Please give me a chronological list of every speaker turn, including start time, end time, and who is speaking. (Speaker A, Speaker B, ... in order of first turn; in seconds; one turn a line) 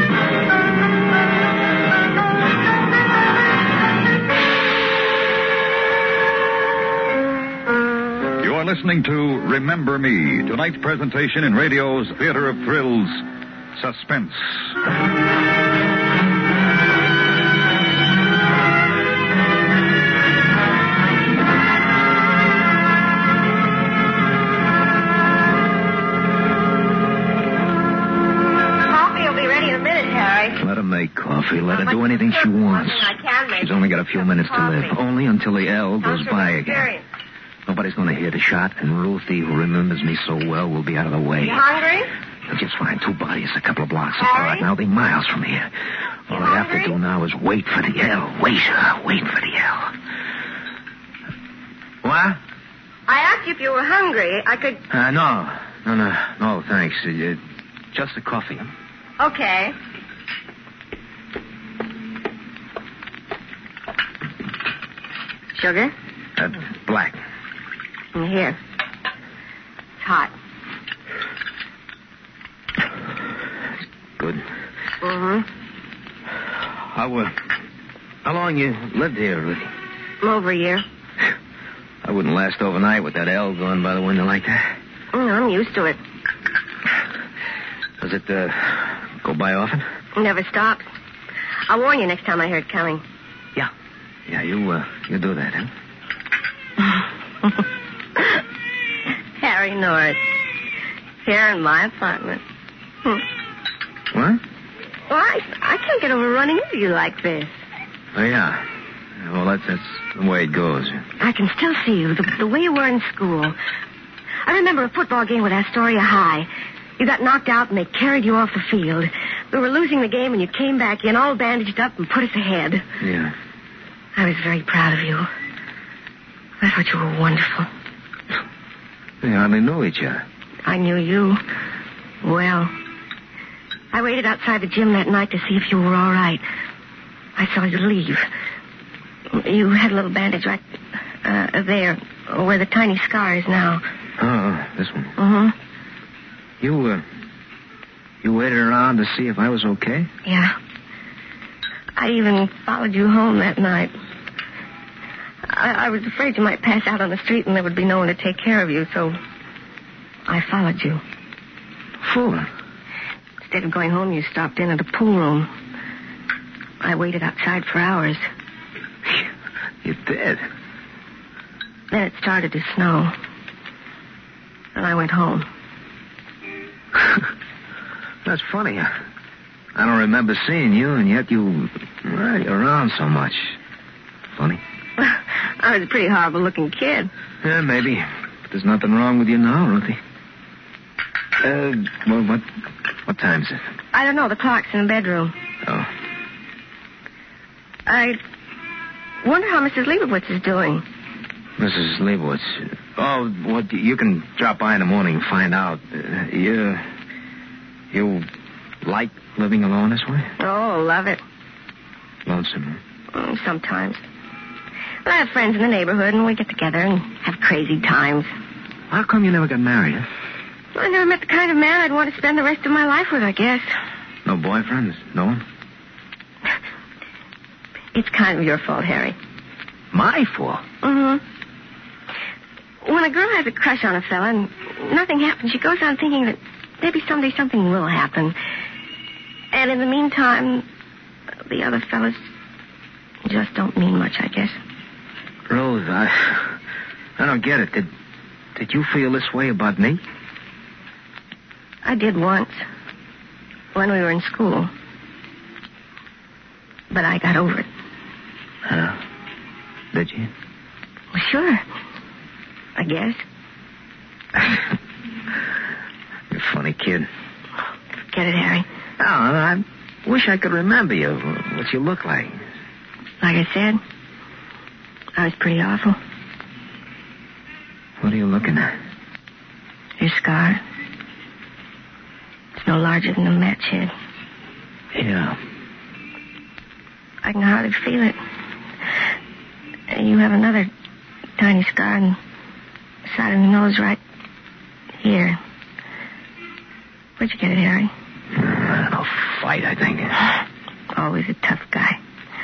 Speaker A: 8.4-14.7
Speaker B: 28.9-30.6
Speaker C: 30.6-36.9
Speaker B: 31.7-35.0
Speaker B: 36.0-37.0
Speaker C: 37.7-41.6
Speaker B: 41.4-42.1
Speaker C: 42.5-45.7
Speaker B: 44.2-44.7
Speaker C: 46.3-50.0
Speaker B: 46.3-47.0
Speaker C: 52.0-52.4
Speaker B: 53.1-54.8
Speaker C: 54.9-57.4
Speaker C: 57.9-58.7
Speaker B: 59.2-59.8
Speaker B: 65.6-65.9
Speaker C: 66.4-67.2
Speaker B: 68.1-68.6
Speaker B: 70.0-70.3
Speaker C: 74.2-74.4
Speaker B: 75.0-75.5
Speaker C: 76.7-77.4
Speaker C: 78.2-79.7
Speaker B: 80.2-80.8
Speaker C: 82.0-84.7
Speaker B: 85.1-86.0
Speaker C: 88.0-89.8
Speaker B: 90.2-90.8
Speaker B: 91.7-93.0
Speaker C: 94.3-95.7
Speaker B: 99.4-100.2
Speaker B: 101.2-102.4
Speaker C: 104.1-104.4
Speaker B: 105.1-107.5
Speaker C: 108.1-111.0
Speaker B: 111.2-113.5
Speaker B: 114.5-116.5
Speaker B: 117.0-122.8
Speaker C: 123.0-123.3
Speaker B: 124.2-125.3
Speaker B: 126.6-127.7
Speaker C: 129.2-130.2
Speaker B: 130.7-131.4
Speaker B: 132.2-132.7
Speaker B: 133.9-136.4
Speaker B: 137.4-138.3
Speaker B: 139.3-140.6
Speaker B: 141.2-143.8
Speaker C: 144.2-145.2
Speaker B: 145.2-145.6
Speaker C: 146.6-147.0
Speaker C: 148.2-150.1
Speaker B: 150.2-150.6
Speaker B: 152.0-153.9
Speaker B: 155.5-159.2
Speaker B: 160.3-161.0
Speaker C: 162.0-162.5
Speaker B: 163.5-165.5
Speaker B: 166.8-168.2
Speaker C: 169.8-170.4
Speaker B: 171.9-173.1
Speaker B: 174.8-175.5
Speaker C: 177.0-177.2
Speaker C: 178.2-178.9
Speaker C: 179.8-183.6
Speaker C: 184.3-184.6
Speaker B: 185.0-187.1
Speaker C: 187.4-190.0
Speaker C: 191.4-192.5
Speaker C: 193.1-193.6
Speaker B: 193.9-195.3
Speaker C: 195.7-195.9
Speaker B: 197.9-198.2
Speaker B: 199.2-200.8
Speaker C: 201.6-206.9
Speaker C: 207.9-208.3
Speaker C: 208.8-210.3
Speaker B: 210.4-211.2
Speaker C: 212.2-212.8
Speaker B: 213.1-214.0
Speaker B: 215.1-218.3
Speaker C: 218.9-220.1
Speaker B: 220.8-223.7
Speaker C: 224.2-225.4
Speaker B: 227.9-229.2
Speaker C: 229.9-230.6
Speaker B: 230.8-231.2
Speaker B: 232.8-238.3
Speaker B: 239.5-240.6
Speaker B: 241.5-242.3
Speaker B: 243.2-244.6
Speaker C: 245.5-246.6
Speaker C: 247.2-247.9
Speaker C: 248.6-250.0
Speaker B: 251.8-252.6
Speaker B: 253.7-254.7
Speaker B: 256.9-257.7
Speaker C: 258.7-259.0
Speaker C: 259.9-260.3
Speaker B: 261.1-261.6
Speaker B: 262.8-263.2
Speaker C: 266.3-267.1
Speaker B: 268.1-268.7
Speaker C: 269.0-272.4
Speaker B: 273.2-273.8
Speaker B: 275.2-276.0
Speaker C: 278.0-278.8
Speaker B: 280.0-280.6
Speaker B: 282.6-283.9
Speaker C: 284.9-285.4
Speaker B: 287.2-288.2
Speaker B: 289.9-290.7
Speaker B: 291.4-292.2
Speaker B: 293.1-294.0
Speaker B: 295.0-295.4
Speaker B: 297.2-297.9
Speaker C: 298.3-300.4
Speaker B: 300.9-302.0